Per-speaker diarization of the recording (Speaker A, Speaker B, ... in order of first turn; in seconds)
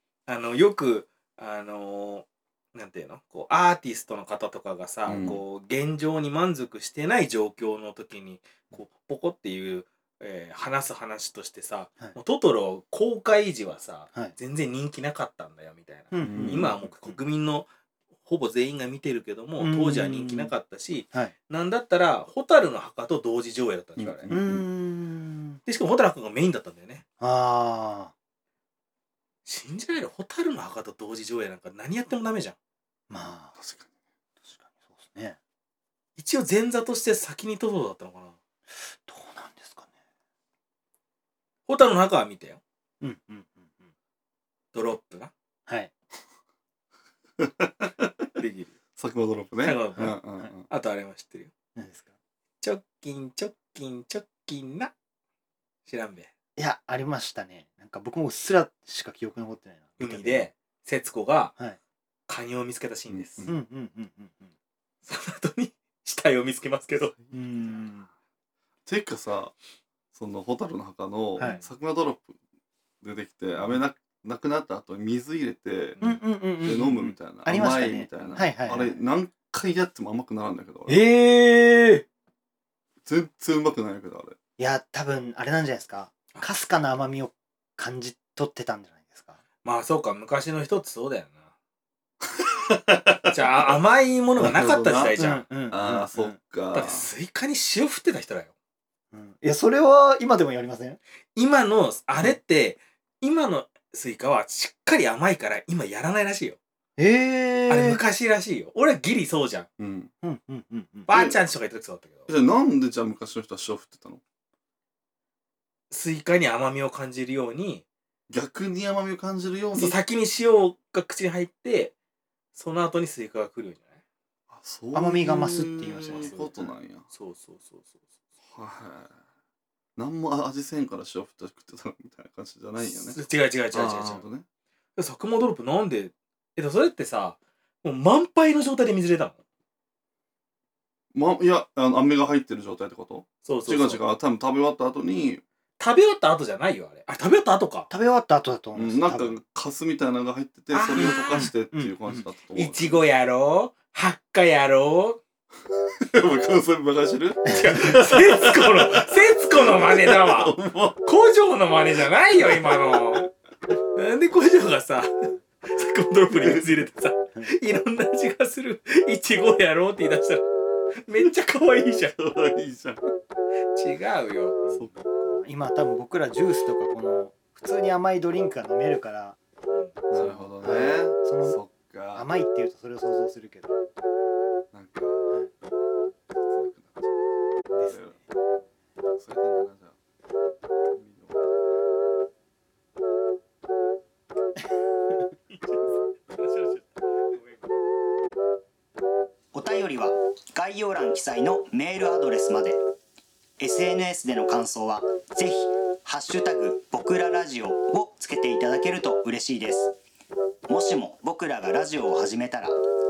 Speaker A: 0.3-17.7, 18.2-24.3, 25.6-27.0, 29.4-32.5, 36.2-38.4, 41.7-42.6, 44.7-45.3, 48.4-48.7, 49.6-51.5, 52.6-54.9, 55.8-56.3, 60.0-61.5, 62.3-63.5, 65.0-67.1, 89.6-91.4, 93.3-95.5, 96.7-98.5, 101.3-106.6, 107.7-109.7, 111.1-112.3, 115.9-117.8, 119.7-121.9, 122.5-123.9, 126.0-126.5, 127.1-128.0, 132.8-134.3, 134.9-139.4, 143.4-144.0, 145.8-147.9, 150.7-151.5, 152.5-155.2, 157.5-163.2, 163.9-170.4, 171.1-172.1, 173.7-174.6, 179.7-179.9, 195.5-197.7
Speaker B: 5.0-5.4, 16.2-16.7, 24.0-24.6, 33.6-33.9, 47.4-48.1, 49.0-50.7, 63.1-63.5, 67.0-67.8, 68.8-69.5, 70.1-72.3, 73.0-81.0, 83.0-84.3, 92.7-93.4, 94.4-97.1, 109.8-110.1, 111.1-111.4, 112.3-114.2, 118.3-120.0, 124.5-127.0, 128.5-129.1, 130.0-134.4, 141.1-145.4, 148.7-153.0, 156.0-161.0, 162.4-163.2, 172.1-173.1, 180.1-182.3, 184.7-185.3, 186.3-187.1, 187.7-188.2, 189.1-190.0, 190.9-191.4
Speaker C: 16.1-17.2, 19.6-20.5, 24.3-25.6, 27.2-28.1, 33.1-33.5, 34.5-35.4, 38.8-39.9, 43.0-43.7, 45.7-45.9, 50.0-50.5, 51.8-52.1, 56.6-60.5, 63.5-64.5, 67.3-68.1, 71.4-71.7, 76.0-79.0, 80.9-82.0, 84.6-89.4, 94.4-96.4, 99.1-101.0, 107.0-108.0, 110.2-111.1, 124.9-126.7, 147.9-149.4, 151.0-152.2, 174.6-179.4, 180.1-181.6, 182.1-183.8, 187.7-188.2
Speaker D: 199.5-202.8, 203.6-209.9, 210.7-212.8